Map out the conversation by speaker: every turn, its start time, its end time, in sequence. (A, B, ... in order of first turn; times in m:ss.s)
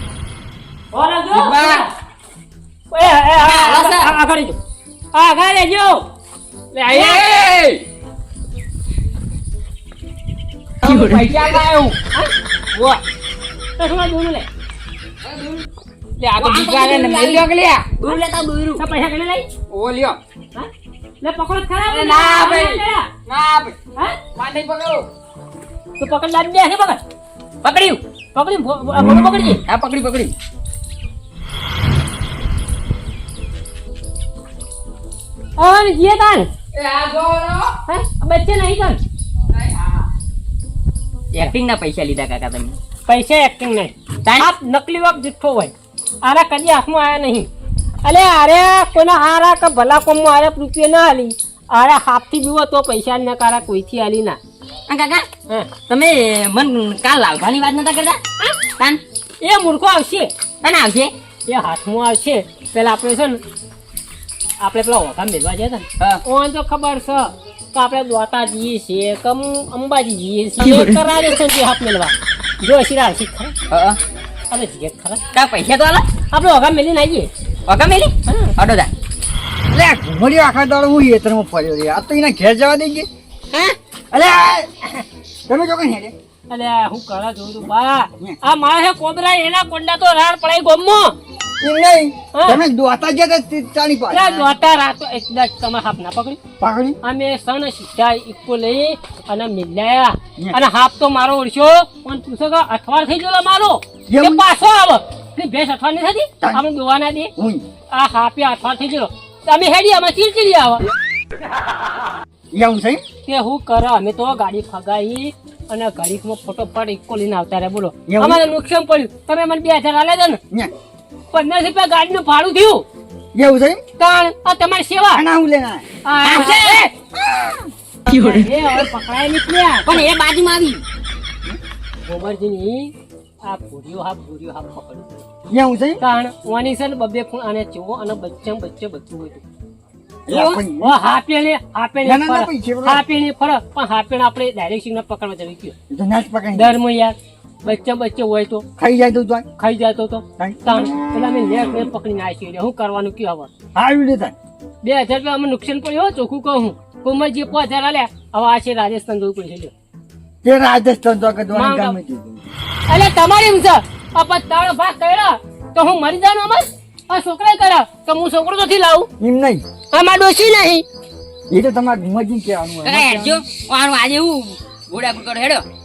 0:00.9-0:01.9 A
0:01.4-0:01.8 B
0:02.9-0:04.6 A
0:03.4-0:04.1 C
0:05.1-0:06.0 A
0:06.7-0:07.2 A
0:06.9-0:07.8 B
0:10.8-0:12.0 B
0:12.8-0:13.0 B
0:13.8-0:14.5 A
0:15.2-0:15.7 C
0:16.2-0:17.9 B
0:16.4-0:17.4 C
0:18.0-0:18.8 C
0:18.8-0:19.5 A
0:19.7-0:20.2 B
0:21.2-0:23.1 A
0:21.9-0:23.8 B
0:24.4-0:25.1 B
0:26.0-0:27.0 A
0:27.6-0:29.6 A
0:29.7-0:30.3 C
0:35.6-0:36.5 A
0:36.7-0:37.7 B
0:37.9-0:39.0 A
0:39.5-0:40.1 B
0:41.3-0:42.8 C
0:43.1-0:47.5 A
0:48.0-0:54.4 A
0:54.9-0:55.3 C
0:55.9-0:58.2 C
0:59.4-1:00.3 A
1:00.6-1:01.1 C
1:01.5-1:03.4 A
1:04.6-1:13.6 A
1:13.7-1:14.0 C
1:14.5-1:15.2 A
1:15.3-1:16.1 C
1:16.3-1:17.3 A
1:17.7-1:18.9 C
1:18.3-1:18.5 A
1:19.7-1:23.1 D
1:24.1-1:24.7 D
1:25.5-1:26.1 D
1:26.5-1:31.2 A
1:31.6-1:34.5 D
1:32.3-1:32.6 A
1:34.1-1:36.4 A
1:36.6-1:37.0 D
1:37.0-1:47.3 A
1:44.1-1:44.4 D
1:47.4-1:47.6 D
1:47.9-1:50.8 A
1:52.5-1:53.0 D
1:53.3-2:00.4 A
1:58.1-1:58.4 D
2:01.3-2:02.8 A
2:03.3-2:03.8 D
2:04.0-2:05.2 A
2:05.1-2:05.8 D
2:06.0-2:06.9 A
2:06.2-2:06.9 C
2:07.1-2:07.7 D
2:08.1-2:10.1 A
2:09.9-2:10.8 C
2:12.0-2:12.9 A
2:13.4-2:15.2 A
2:15.5-2:16.0 D
2:16.0-2:19.4 A
2:20.3-2:21.0 D
2:20.3-2:25.8 A
2:22.0-2:23.0 D
2:25.9-2:26.8 D
2:26.5-2:28.7 A
2:28.8-2:29.5 D
2:29.6-2:33.5 A
2:30.4-2:30.8 D
2:33.8-2:34.3 D
2:34.8-2:39.7 A
2:40.4-2:42.4 D
2:41.5-2:42.0 A
2:42.9-2:49.1 A
2:49.2-2:49.6 D
2:49.9-2:50.8 A
2:51.5-2:53.4 D
2:52.8-2:55.6 C